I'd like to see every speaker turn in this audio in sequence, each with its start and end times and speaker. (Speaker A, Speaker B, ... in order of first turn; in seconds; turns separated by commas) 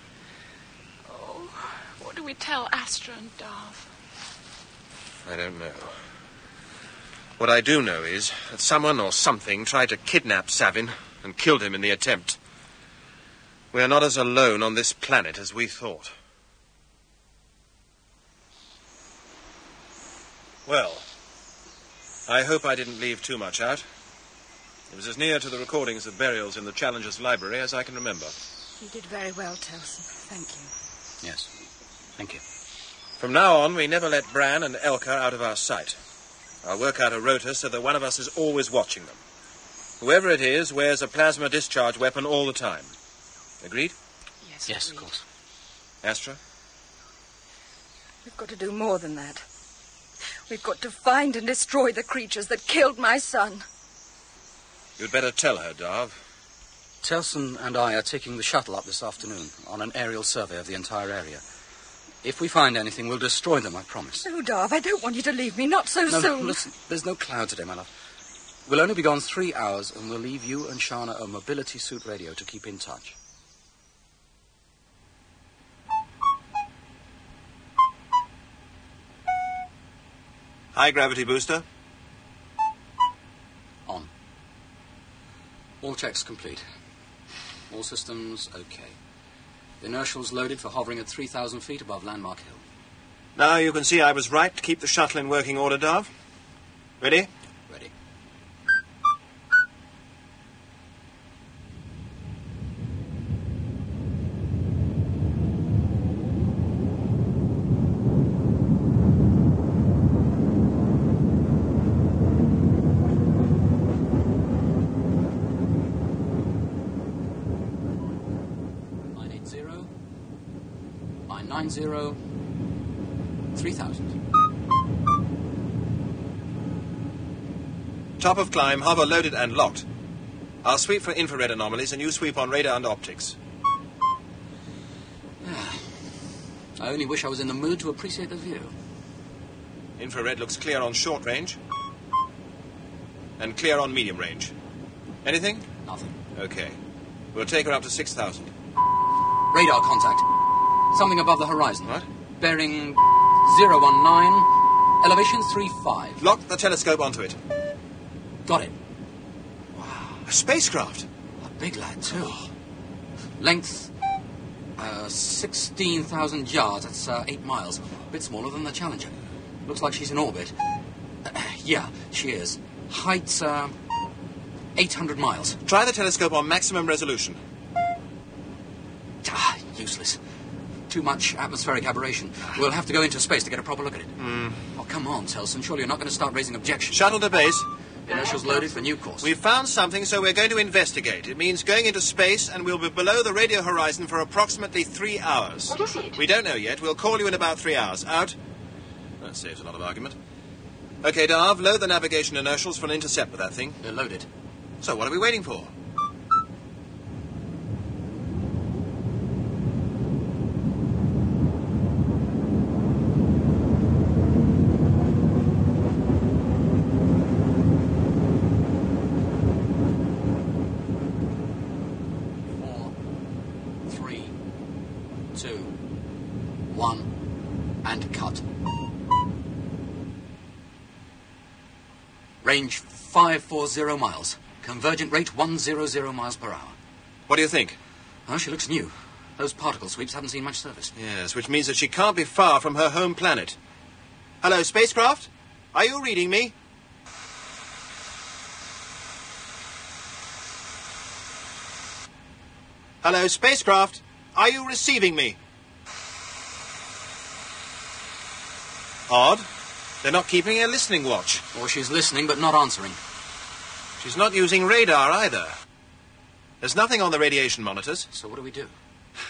Speaker A: 1.1-3.9, Speaker B: 5.2-5.9, Speaker B: 7.4-12.4, Speaker B: 13.7-16.1, Speaker B: 20.6-21.1, Speaker B: 22.3-23.9, Speaker B: 24.9-28.3, Speaker C: 28.8-30.7, Speaker D: 31.2-31.5, Speaker D: 32.2-32.4, Speaker B: 33.2-36.0, Speaker B: 36.6-39.2, Speaker B: 40.0-42.9, Speaker B: 43.6-43.9, Speaker A: 44.4-45.1, Speaker D: 44.7-45.2, Speaker B: 46.0-46.4, Speaker C: 48.2-49.4, Speaker C: 50.5-53.6, Speaker B: 55.0-56.2, Speaker D: 57.0-61.4, Speaker D: 62.2-64.3, Speaker C: 64.2-66.5, Speaker D: 66.1-67.9, Speaker D: 68.7-73.2, Speaker B: 80.7-81.6, Speaker D: 85.8-86.6, Speaker D: 87.7-89.0, Speaker D: 89.8-92.6, Speaker B: 93.3-96.1, Speaker B: 97.0-97.3, Speaker D: 119.1-119.9, Speaker D: 121.3-122.2, Speaker D: 123.5-124.2, Speaker B: 128.2-129.8, Speaker B: 130.6-133.3, Speaker D: 135.4-136.0, Speaker D: 136.8-138.8, Speaker B: 140.0-141.6, Speaker B: 143.4-144.5, Speaker B: 145.2-145.6, Speaker D: 145.8-146.2, Speaker B: 146.3-146.8, Speaker B: 147.3-148.5, Speaker D: 149.5-150.3, Speaker D: 150.9-156.2, Speaker B: 156.2-157.4, Speaker D: 158.4-158.8, Speaker D: 159.7-160.2, Speaker B: 160.3-161.1, Speaker D: 161.4-162.4, Speaker D: 163.4-163.9, Speaker D: 164.8-170.5, Speaker D: 171.2-173.8, Speaker D: 174.7-175.6, Speaker B: 175.7-177.4, Speaker D: 179.2-180.2, Speaker D: 180.9-184.2, Speaker B: 184.2-184.6, Speaker D: 184.7-187.3, Speaker B: 186.9-187.7, Speaker D: 188.1-189.3, Speaker B: 189.2-198.3, Speaker B: 199.2-200.2, Speaker B: 201.0-203.8, Speaker D: 203.8-204.3, Speaker B: 204.8-205.7, Speaker D: 222.5-222.9, Speaker D: 223.8-224.3, Speaker D: 225.3-225.7, Speaker D: 226.7-227.1, Speaker D: 227.8-228.4, Speaker D: 232.4-236.8, Speaker B: 237.3-237.8, Speaker D: 238.3-240.9, Speaker B: 240.9-243.6, Speaker B: 244.4-246.5, Speaker B: 253.0-255.4, Speaker B: 259.1-259.5, Speaker B: 260.0-261.4, Speaker D: 261.5-263.0, Speaker B: 264.0-265.5, Speaker B: 266.6-268.1, Speaker D: 268.1-268.7